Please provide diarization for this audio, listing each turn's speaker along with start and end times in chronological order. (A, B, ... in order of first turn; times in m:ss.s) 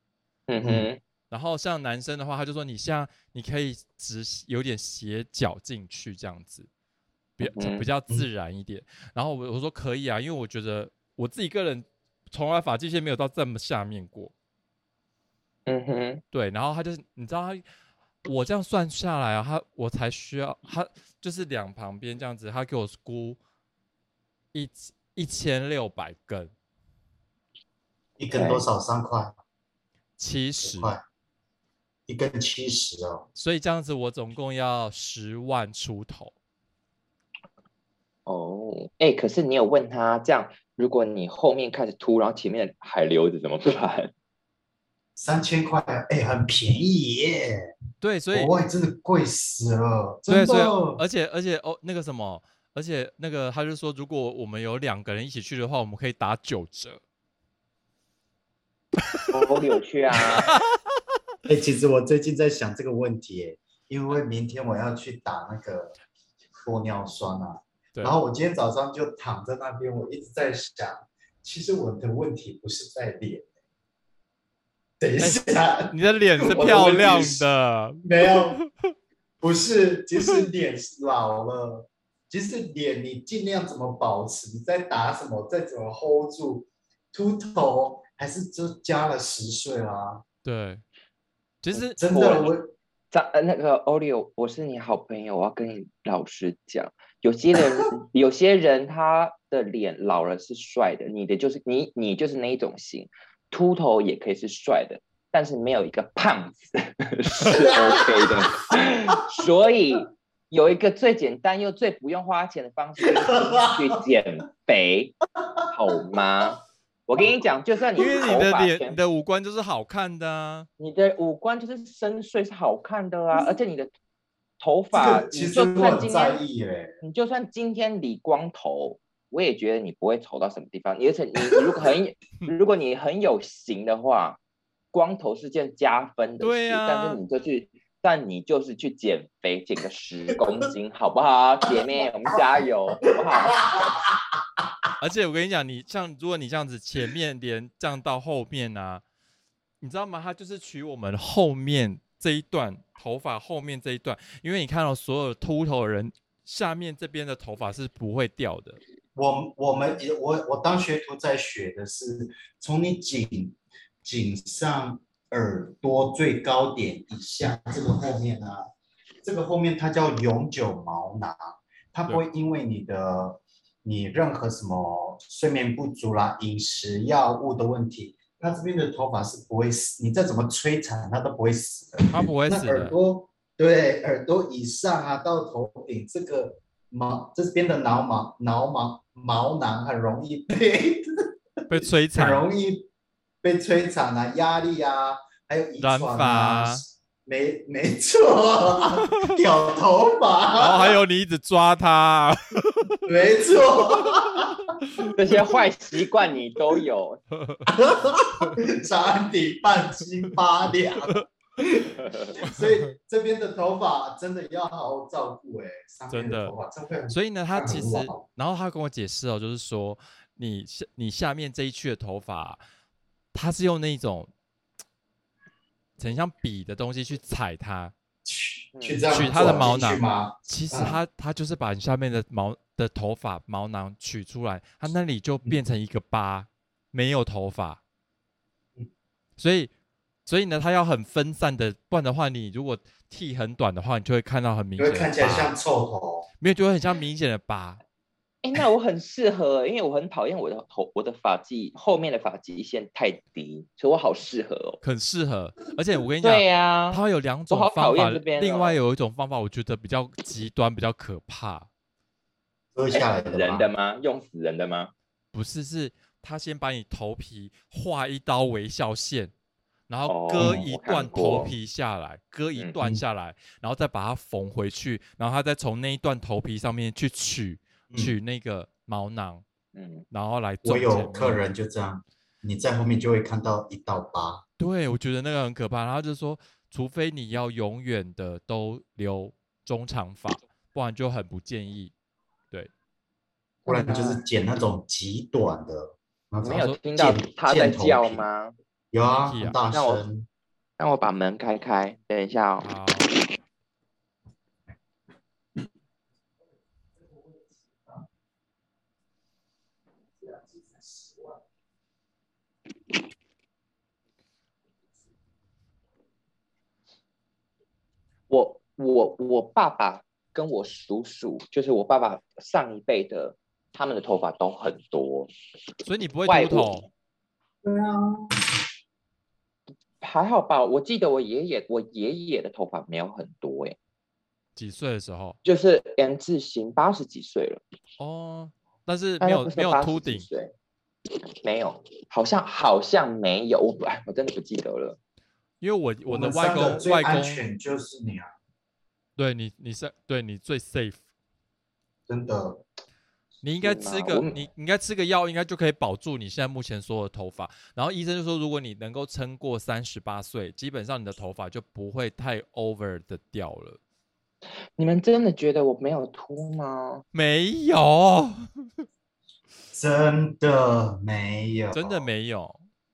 0:00.5-0:01.0 A
0:00.6-0:00.9 B
0:01.3-0:06.7 C
0:07.4-0:14.3 C
0:07.4-0:07.9 A
0:15.7-0:16.2 A
0:16.3-0:17.6 C
0:18.2-0:23.4 C
0:24.5-0:26.5 C
0:28.2-0:29.4 B
0:28.3-0:28.6 A
0:30.2-0:31.0 C
0:30.6-0:31.0 B
0:32.1-0:33.2 B
0:33.4-0:36.3 C
0:38.3-0:44.1 A
0:45.2-0:47.7 B
0:48.0-0:48.5 C
0:48.3-0:51.0 B
0:50.3-0:57.0 C
0:59.3-1:00.5 A
1:00.4-1:00.7 C
1:01.5-1:06.0 B
1:06.6-1:13.5 B
1:15.0-1:17.5 B
1:15.2-1:18.6 C
1:18.0-1:18.6 B
1:19.4-1:30.2 B
1:20.2-1:20.5 C
1:30.4-1:30.8 C
1:31.6-1:32.5 C
1:31.8-1:32.5 A
1:32.0-1:32.7 B
1:33.1-1:55.2 A
1:47.5-1:48.9 B
1:53.0-1:54.0 B
1:55.6-1:56.2 B
1:55.7-1:59.0 A
1:58.0-2:00.7 C
2:00.8-2:03.9 A
2:04.6-2:06.4 A
2:04.9-2:07.0 B
2:07.0-2:14.4 A
2:14.9-2:23.8 A
2:16.4-2:17.2 C
2:23.6-2:24.9 B
2:25.0-2:29.0 C
2:29.8-2:38.8 C
2:39.2-2:48.7 B
2:49.2-3:11.3 B
3:02.1-3:03.0 C
3:11.7-3:12.5 C
3:12.1-3:12.9 B
3:13.4-3:21.0 B
3:15.8-3:16.8 C
3:19.0-3:19.4 C
3:20.6-3:23.0 C
3:23.1-3:24.7 B
3:23.9-3:24.5 C
3:25.1-3:27.2 A
3:27.3-3:27.7 C
3:27.7-3:38.2 B
3:28.3-3:28.6 C
3:32.4-3:32.9 C
3:36.1-3:36.5 C
3:37.1-3:42.6 C
3:43.3-3:44.3 C
3:46.0-3:47.9 C
3:48.2-3:51.0 B
3:48.7-3:49.1 A
3:49.1-3:57.8 C
3:59.4-3:59.7 C
4:00.3-4:05.6 C
4:04.8-4:06.3 B
4:06.4-4:07.8 C
4:08.4-4:14.8 A
4:14.8-4:21.7 C
4:16.2-4:18.8 A
4:22.8-4:23.7 B
4:22.9-4:24.9 A
4:25.3-4:29.3 C
4:29.9-4:39.4 C
4:30.1-4:31.5 A
4:30.4-4:30.6 B
4:39.7-4:40.1 A
4:40.1-4:41.5 C
4:40.6-4:44.4 B
4:44.6-4:51.9 C
4:53.6-4:54.2 A
4:53.7-4:58.2 B
4:56.4-4:58.6 A
4:56.4-4:56.8 C
4:58.9-5:00.3 B
4:59.3-4:59.6 C
4:59.7-5:00.0 A
5:00.8-5:02.7 A
5:02.6-5:03.1 C
5:10.2-5:11.3 B
5:18.3-5:25.3 A
5:25.8-5:26.9 C
5:26.3-5:26.8 A
5:27.6-5:28.5 B
5:30.0-5:33.8 A
5:34.6-5:35.4 C
5:35.4-5:37.6 A
5:38.0-5:40.3 C
5:39.2-5:40.5 A
5:41.4-5:45.0 A
5:45.6-5:47.4 C
5:46.1-5:48.3 B
5:49.2-5:51.0 C
5:52.1-5:52.6 B
5:53.4-6:03.8 C
5:53.6-5:54.4 A
6:04.8-6:07.0 A
6:07.1-6:08.6 C
6:09.7-6:12.1 B
6:11.7-6:12.6 C